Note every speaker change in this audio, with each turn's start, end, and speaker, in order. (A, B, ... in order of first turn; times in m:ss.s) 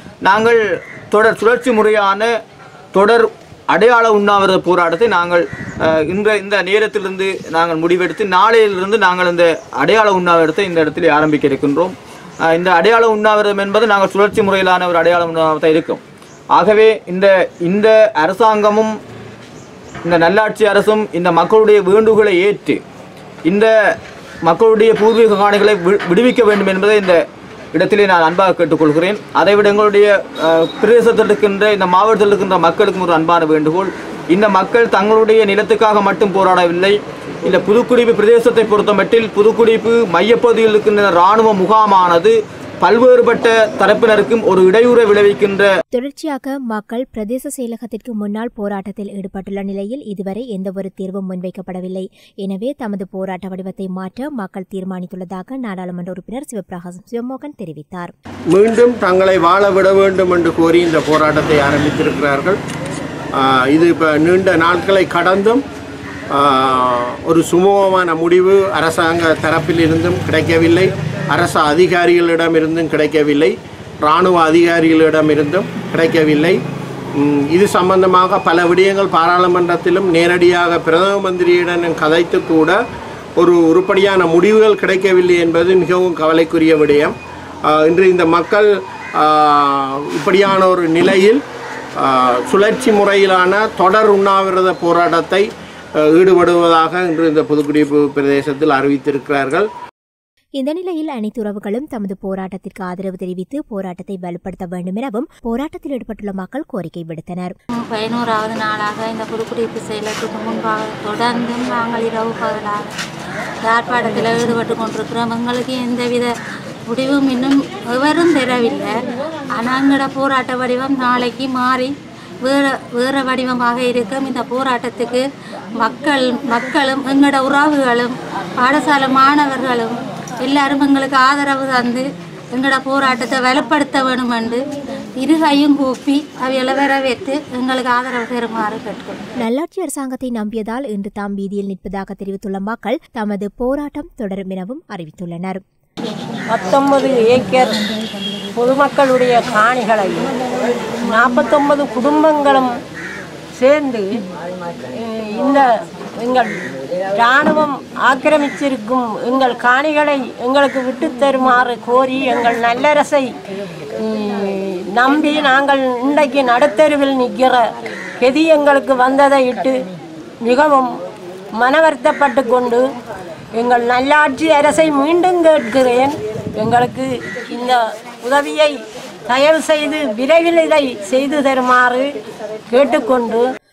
0:00.2-0:00.6 A
0:01.1-0:02.3 A
0:02.9-0:12.0 A
0:12.5-0:16.0 A
0:16.5-0:19.0 A
0:20.0-0:22.8 A
0:23.4-0:23.7 A
0:24.4-0:27.2 A
0:27.7-0:45.7 A
0:45.9-0:58.1 B
0:58.5-1:02.6 C
1:03.4-1:05.6 C
1:06.3-1:13.5 C
1:09.1-1:09.4 D
1:14.0-1:16.6 C
1:17.2-1:22.8 C
1:23.4-1:27.1 C
1:27.8-1:28.6 C
1:29.2-1:31.4 C
1:32.0-1:35.4 C
1:36.1-1:39.7 C
1:40.6-1:47.5 B
1:47.7-1:52.9 E
1:53.6-1:56.3 E
1:56.9-1:58.9 E
1:59.5-2:01.9 E
2:02.4-2:05.2 E
2:05.8-2:12.0 E
2:12.5-2:14.6 E
2:15.2-2:19.2 E
2:19.4-2:25.6 B
2:26.5-2:27.8 D
2:28.5-2:30.3 D
2:31.0-2:32.7 D
2:33.6-2:34.0 D
2:34.9-2:35.6 D
2:36.2-2:36.5 D
2:37.2-2:43.3 D
2:44.0-2:47.6 D
2:48.2-2:49.7 D
2:50.4-2:50.9 D
2:51.6-2:52.8 D
2:53.6-2:57.0 D
2:57.6-2:58.7 D
2:59.3-3:02.0 D
3:02.7-3:03.4 D